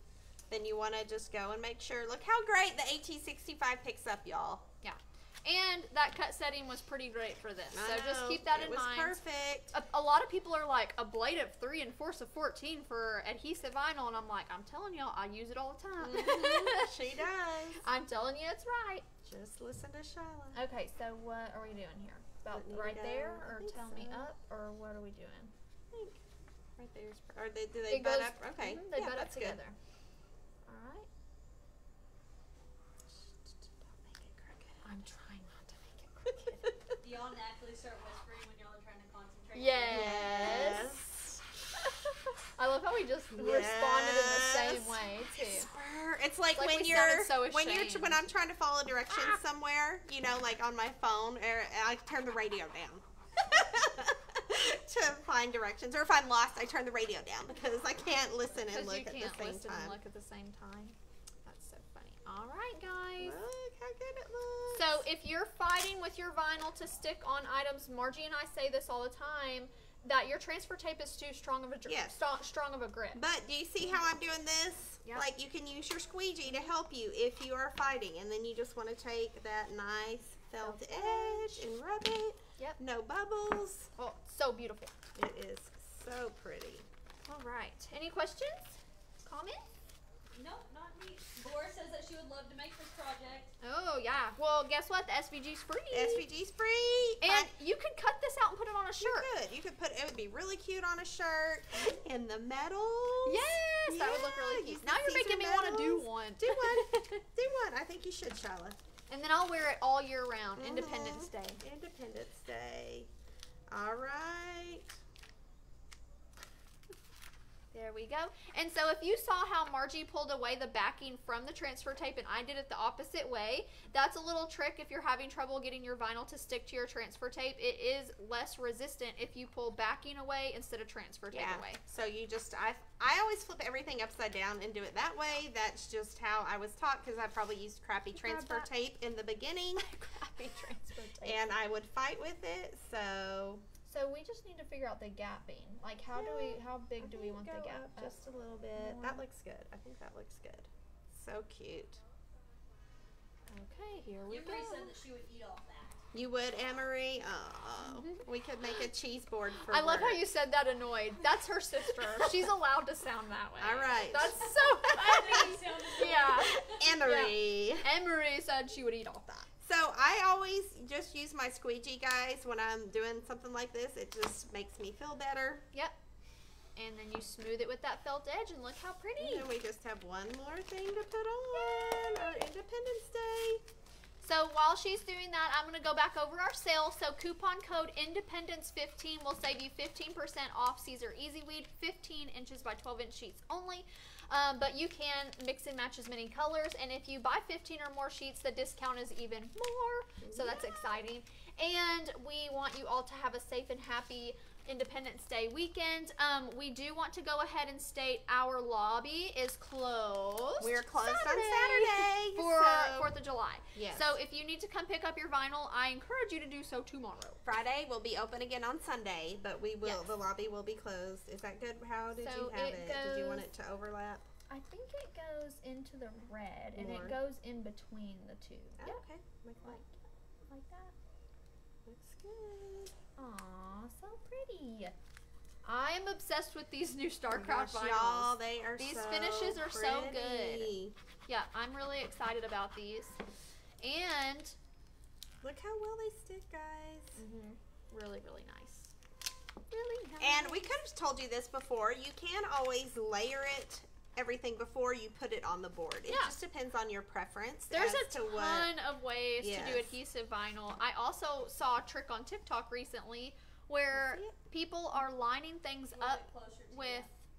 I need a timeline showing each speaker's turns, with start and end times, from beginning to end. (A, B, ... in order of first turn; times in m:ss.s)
0:00.5-0:04.6 A
0:04.8-0:09.2 B
0:07.7-0:09.7 A
0:09.7-0:16.9 B
0:16.0-0:17.8 A
0:17.8-0:19.0 B
0:19.2-0:20.6 A
0:20.5-0:25.5 B
0:22.5-0:24.3 A
0:25.9-0:26.2 A
0:26.8-0:29.6 A
0:27.9-0:29.8 B
0:30.6-0:31.1 B
0:34.0-0:34.8 A
0:34.8-0:36.7 B
0:36.6-0:37.0 A
0:37.0-0:40.8 C
0:39.5-0:40.9 B
0:39.9-0:41.4 A
0:42.6-0:45.7 B
0:43.3-1:00.0 A
0:46.5-0:48.2 B
0:49.1-0:49.4 B
0:58.7-1:03.4 B
1:03.2-1:05.0 A
1:04.7-1:13.2 B
1:11.8-1:12.2 A
1:13.1-1:23.9 A
1:20.6-1:21.7 B
1:24.0-1:24.9 B
1:25.1-1:26.8 A
1:27.3-1:29.6 B
1:30.3-1:33.5 C
1:33.6-1:36.2 B
1:35.9-1:37.5 A
1:37.2-1:39.3 B
1:39.0-1:48.8 A
1:41.7-1:42.0 B
1:43.2-1:47.2 B
1:49.1-1:51.6 B
1:50.6-1:53.1 A
1:53.7-1:54.9 A
1:57.7-2:11.8 B
2:11.3-2:19.9 A
2:18.1-2:18.7 B
2:19.8-2:21.4 B
2:21.2-2:23.6 A
2:23.8-2:28.2 B
2:26.1-2:32.0 A
2:28.7-2:29.2 B
2:33.5-2:34.9 B
2:34.3-2:36.0 C
2:36.1-2:40.2 A
2:37.8-2:38.2 B
2:39.6-2:49.5 B
2:41.9-2:42.5 A
2:43.6-2:44.5 A
2:44.8-2:46.9 C
2:46.6-2:47.9 A
2:49.6-2:55.6 A
2:56.8-2:59.5 B
2:59.2-3:03.6 A
3:01.5-3:02.4 B
3:04.2-3:37.4 B
3:20.2-3:20.7 A
3:30.6-3:33.1 A
3:33.7-3:34.2 A
3:37.4-3:44.2 A
3:39.8-3:40.1 B
3:42.2-3:43.5 B
3:44.5-3:49.0 B
3:46.7-3:47.2 A
3:48.8-3:49.8 A
3:49.6-3:50.9 B
3:51.8-3:52.9 A
3:53.2-3:54.9 B
3:55.6-4:00.7 B
3:57.3-4:00.9 A
4:01.3-4:03.2 B
4:03.8-4:04.6 B
4:05.4-4:07.2 A
4:07.2-4:08.9 B
4:09.7-4:10.7 B
4:10.2-4:18.7 A
4:16.1-4:16.3 B
4:17.7-4:27.2 B
4:19.4-4:19.9 A
4:23.9-4:24.3 A
4:25.9-4:27.1 C